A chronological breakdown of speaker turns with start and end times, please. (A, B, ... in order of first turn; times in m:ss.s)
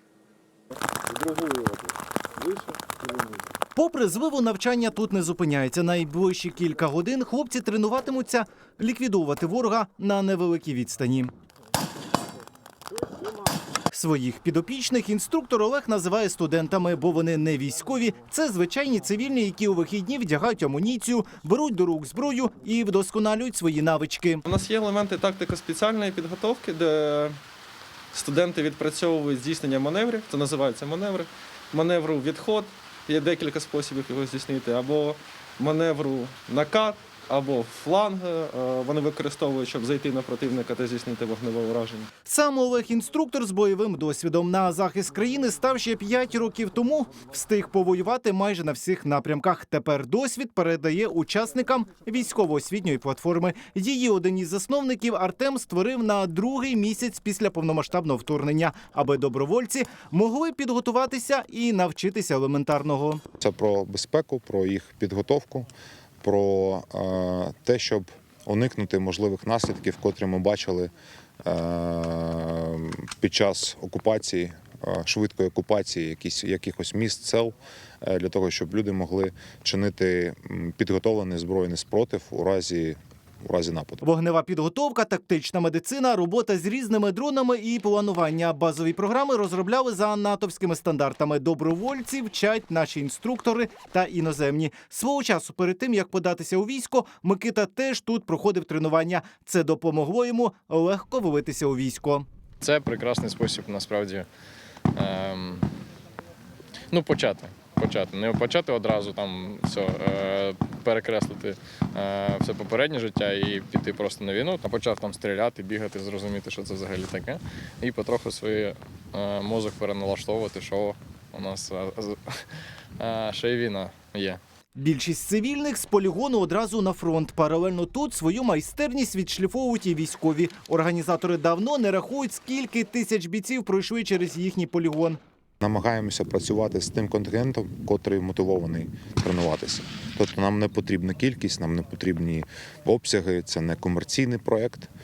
0:01.4-0:01.7 A
0:03.7-0:11.3 B
0:13.9-0:24.4 B
0:24.4-0:27.3 A
0:28.1-0:42.1 A
0:42.2-1:03.2 B
1:03.4-1:05.7 C
1:06.2-1:10.9 C
1:11.4-1:24.0 C
1:24.0-1:42.2 B
1:42.6-1:44.3 D
1:44.9-1:45.7 D
1:46.9-2:04.4 D
2:04.8-2:15.2 B
2:15.6-2:24.9 C